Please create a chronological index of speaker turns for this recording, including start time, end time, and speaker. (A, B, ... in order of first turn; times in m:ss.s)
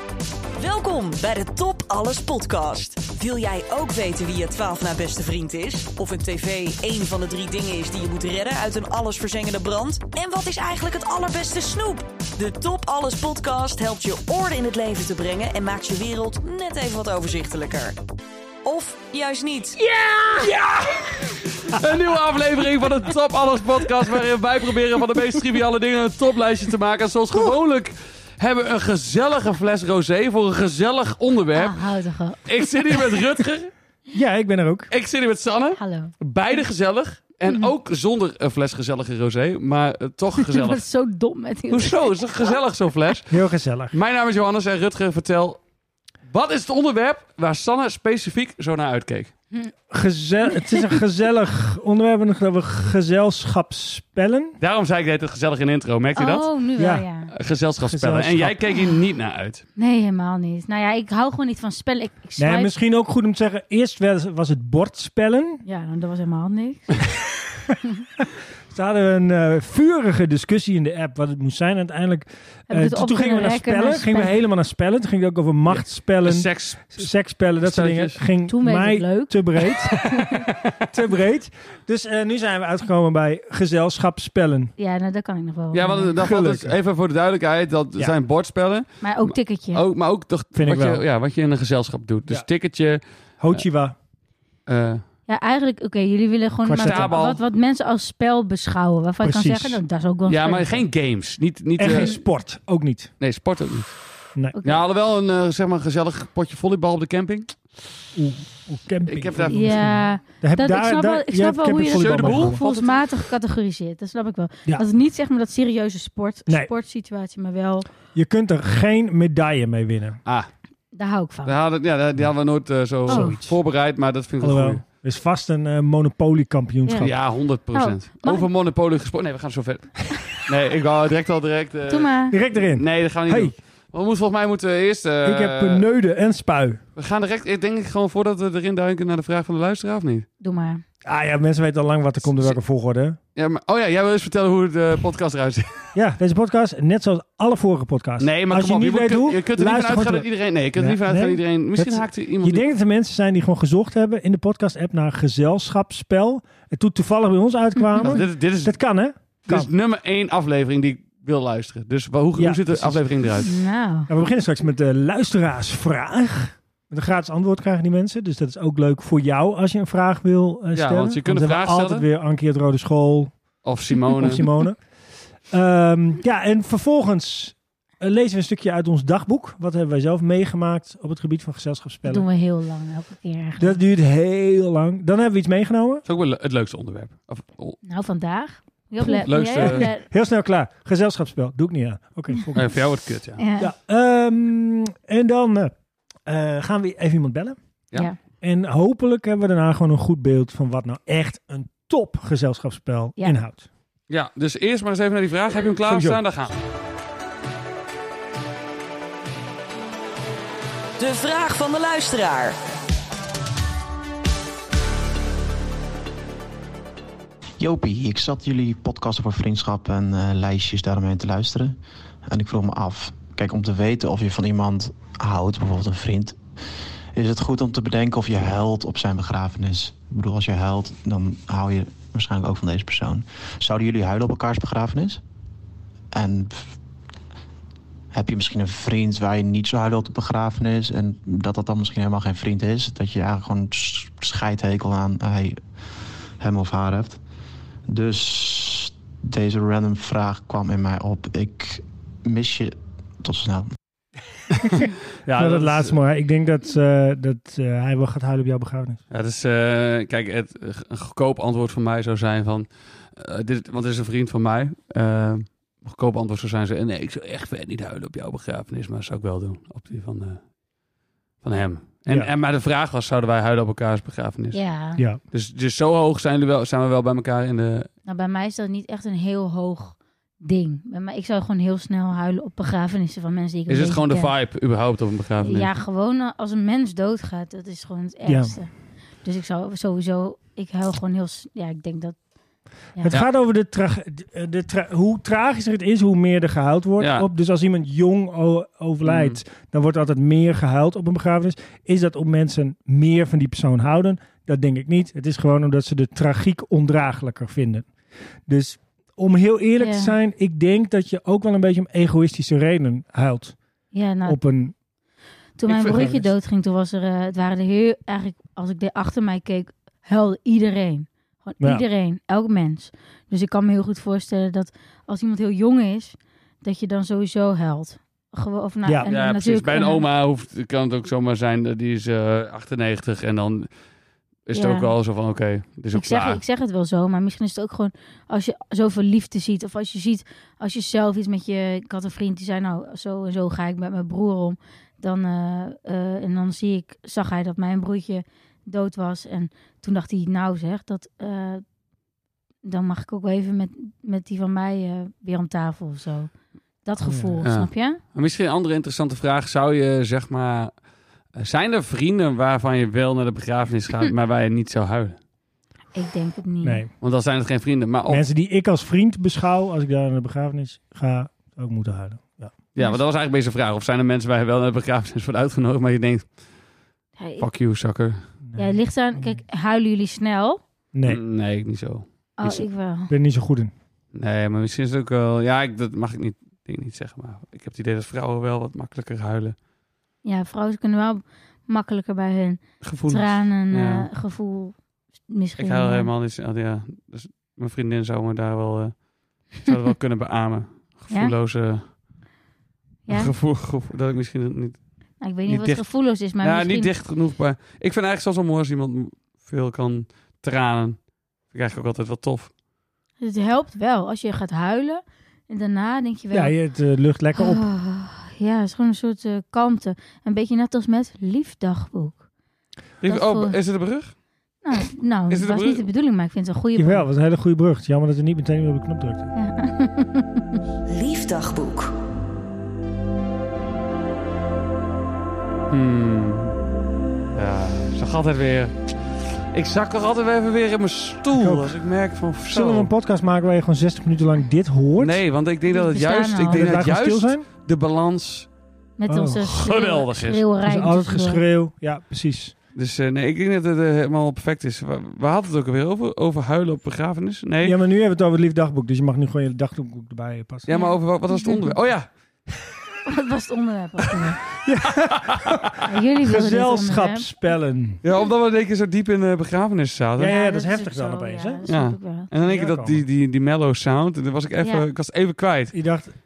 0:00.6-0:18.0 A
0:18.6-0:19.8 A
0:19.9-0:20.4 B
0:20.4-0:31.8 C
0:31.5-0:33.2 B
0:32.4-0:33.7 C
0:34.1-0:34.9 D
0:34.9-0:40.8 C
0:35.8-0:36.1 B
0:40.4-0:42.5 B
0:41.7-0:43.4 C
0:43.3-0:43.9 D
0:43.9-0:45.6 C
0:46.3-0:49.3 C
0:49.9-0:54.6 D
0:50.5-0:50.8 B
0:54.6-0:56.5 C
0:56.2-0:57.3 B
0:56.8-0:57.0 D
0:57.3-0:59.6 C
0:57.9-0:58.6 D
0:59.8-1:02.7 B
1:02.4-1:05.6 D
1:05.6-1:07.0 B
1:07.7-1:24.7 D
1:12.7-1:14.3 B
1:15.7-1:17.1 C
1:17.6-1:18.2 C
1:18.5-1:20.4 B
1:24.8-1:26.1 B
1:25.7-1:28.9 C
1:26.2-1:26.7 D
1:29.0-1:29.8 B
1:29.7-1:33.0 C
1:30.6-1:31.0 D
1:33.4-1:33.9 D
1:34.7-1:35.0 C
1:35.3-1:40.8 B
1:36.6-1:37.1 D
1:36.8-1:37.4 C
1:39.2-1:39.8 D
1:40.2-1:42.1 C
1:41.8-1:43.1 D
1:41.9-1:42.2 B
1:43.2-1:44.0 C
1:44.5-1:44.8 B
1:44.6-1:47.6 C
1:48.1-1:52.6 D
1:49.0-1:49.9 C
1:49.5-1:57.9 B
1:51.9-1:53.1 C
1:58.1-2:00.2 D
2:00.9-2:01.5 B
2:01.4-2:04.8 C
2:03.1-2:03.5 D
2:03.1-2:03.4 B
2:04.4-2:07.1 D
2:06.8-2:07.1 B
2:07.0-2:15.8 C
2:07.7-2:08.5 B
2:11.9-2:12.4 B
2:12.3-2:13.5 D
2:15.2-2:16.8 D
2:17.0-2:20.2 C
2:20.4-2:20.8 B
2:21.0-2:23.2 D
2:22.2-2:22.6 C
2:23.4-2:25.8 C
2:25.9-2:39.7 D
2:28.2-2:32.6 C
2:37.9-2:38.2 B
2:38.0-2:38.8 C
2:39.4-2:43.5 C
2:42.4-2:43.3 D
2:43.4-2:44.1 B
2:44.1-2:53.4 D
2:50.7-2:52.0 C
2:53.6-2:54.4 C
2:54.2-2:54.8 D
2:55.5-3:02.2 D
3:02.0-3:03.8 B
3:03.6-3:06.0 D
3:06.0-3:07.8 C
3:07.8-3:10.0 B
3:09.0-3:09.9 C
3:09.6-3:12.7 D
3:12.5-3:13.4 C
3:13.4-3:13.7 B
3:13.6-3:15.7 D
3:16.2-3:17.6 D
3:18.4-3:23.7 D
3:24.1-3:26.5 C
3:25.8-3:26.2 D
3:31.0-3:32.6 A
3:37.6-3:46.4 E
3:47.1-3:55.2 E
3:56.1-3:56.6 E
3:58.1-4:05.6 E
4:06.4-4:07.2 E
4:07.9-4:13.7 E
4:14.6-4:15.9 C
4:14.6-4:19.0 D
4:19.1-4:30.4 C
4:31.4-4:34.6 C
4:34.5-4:35.0 B
4:35.3-4:37.9 C
4:38.0-4:44.3 B
4:43.7-4:45.7 C
4:45.4-4:48.7 B
4:48.2-4:48.5 D
4:49.2-4:52.2 B
4:53.0-5:07.9 D
4:57.0-4:57.3 C
4:59.0-4:59.4 C
5:08.5-5:13.6 D
5:09.8-5:10.1 B
5:13.9-5:14.4 B
5:14.2-5:14.7 D
5:15.6-5:30.0 B
5:15.7-5:16.2 C
5:29.1-5:33.7 C
5:34.5-5:36.4 C
5:34.5-5:34.9 B
5:35.9-5:51.6 B
5:52.6-5:56.3 B
5:56.8-5:58.0 B
5:57.0-5:57.4 D
5:57.4-6:00.7 C
6:01.3-6:05.2 C
6:05.9-6:06.8 B
6:06.6-6:06.9 D
6:07.0-6:08.2 C
6:08.1-6:12.5 D
6:12.7-6:16.3 C
6:17.2-6:17.4 B
6:17.4-6:18.2 C
6:18.5-6:19.4 D
6:18.6-6:20.6 B
6:20.9-6:21.2 D
6:21.1-6:22.0 C
6:22.4-6:23.1 B
6:23.1-6:23.7 D
6:24.1-6:29.6 C
6:30.2-6:34.8 B
6:32.8-6:34.1 C
6:35.3-6:36.1 B
6:35.6-6:41.9 C
6:43.0-6:43.3 B
6:43.1-6:44.8 C
6:45.2-6:46.9 B
6:45.5-6:45.8 C
6:46.4-6:52.5 C
6:53.2-6:56.5 B
6:56.3-6:57.6 D
6:57.3-7:02.2 B
7:03.0-7:04.1 C
7:03.0-7:03.6 B
7:04.6-7:07.1 B
7:05.3-7:05.8 C
7:06.7-7:09.3 D
7:09.3-7:10.6 B
7:10.9-7:11.9 A
7:15.7-7:16.5 C
7:17.3-7:18.9 C
7:19.5-7:22.9 C
7:21.3-7:21.8 D
7:22.5-7:25.2 D
7:25.0-7:28.5 C
7:25.7-7:26.8 B
7:26.5-7:27.4 D
7:29.0-7:31.4 B
7:29.1-7:29.4 D
7:29.4-7:30.4 C
7:30.6-7:32.5 D
7:32.7-7:37.8 C
7:37.6-7:40.7 D
7:40.6-7:42.1 C
7:40.7-7:41.7 B
7:43.0-7:44.4 B
7:44.6-7:48.0 D
7:45.0-7:45.8 C
7:45.8-7:47.3 B
7:48.0-7:50.4 C
7:50.2-7:51.6 D
7:50.3-7:52.3 B
7:51.7-7:55.7 C
7:52.3-7:53.0 D
7:55.7-7:56.1 D